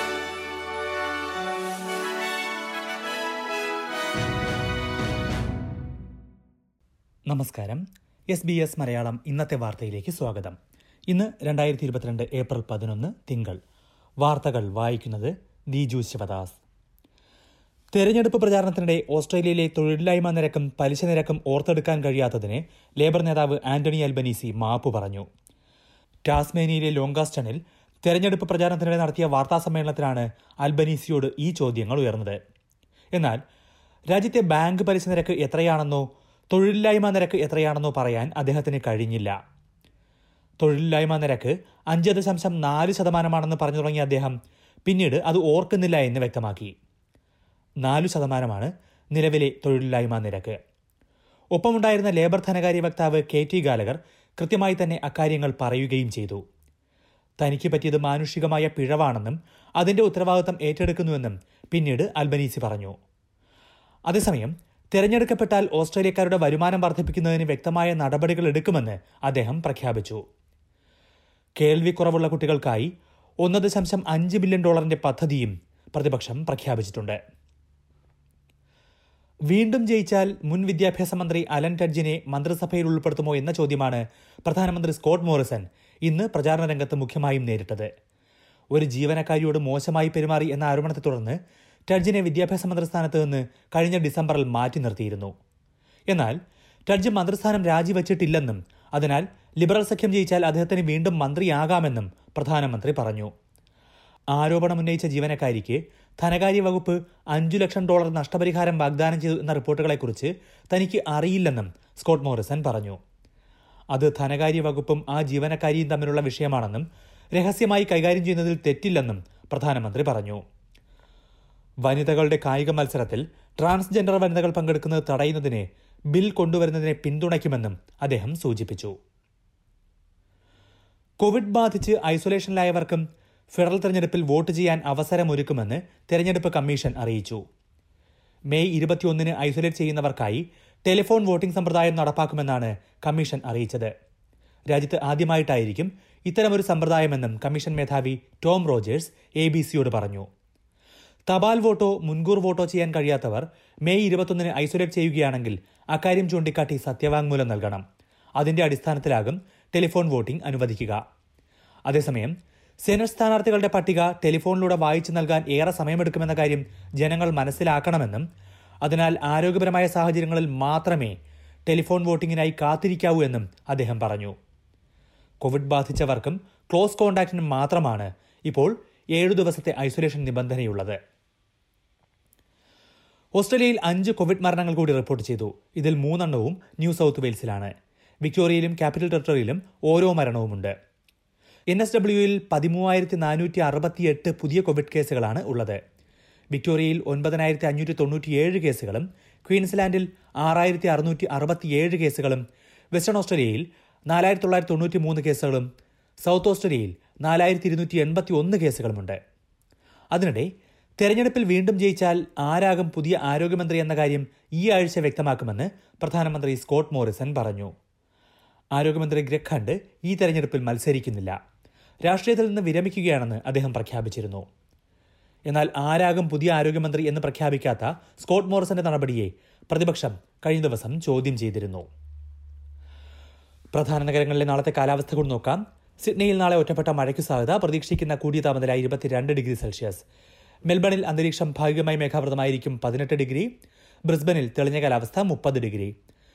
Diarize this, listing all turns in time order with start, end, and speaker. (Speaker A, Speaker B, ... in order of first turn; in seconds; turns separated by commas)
Speaker A: 7.3-10.6, Speaker A: 11.1-13.6, Speaker A: 14.2-16.6, Speaker A: 17.9-25.2, Speaker A: 26.2-32.4, Speaker A: 33.1-33.4, Speaker A: 34.1-39.3, Speaker A: 40.6-44.3, Speaker A: 44.9-46.7, Speaker A: 47.8-50.5, Speaker A: 51.5-56.4, Speaker A: 57.4-62.9, Speaker A: 64.1-70.2, Speaker A: 71.6-72.9, Speaker A: 73.4-77.2, Speaker A: 79.5-87.9, Speaker A: 88.7-91.4, Speaker A: 91.9-95.3, Speaker A: 96.1-96.3, Speaker A: 96.9-103.3, Speaker A: 104.3-113.0, Speaker A: 113.9-120.4, Speaker A: 121.8-128.9, Speaker A: 131.2-137.4, Speaker A: 138.5-143.9, Speaker A: 144.7-150.2, Speaker A: 151.3-157.8, Speaker A: 158.4-161.0, Speaker A: 161.9-162.3, Speaker A: 162.8-168.2, Speaker A: 168.8-171.1, Speaker A: 171.7-174.3, Speaker A: 175.4-181.0, Speaker A: 183.4-187.7, Speaker A: 188.2-190.7, Speaker A: 191.7-195.8, Speaker A: 196.5-205.7, Speaker A: 206.2-209.2, Speaker A: 210.1-217.7, Speaker A: 218.7-221.3, Speaker A: 222.0-224.4, Speaker A: 225.5-231.8, Speaker A: 233.7-240.0, Speaker A: 240.7-243.5, Speaker A: 244.1-245.9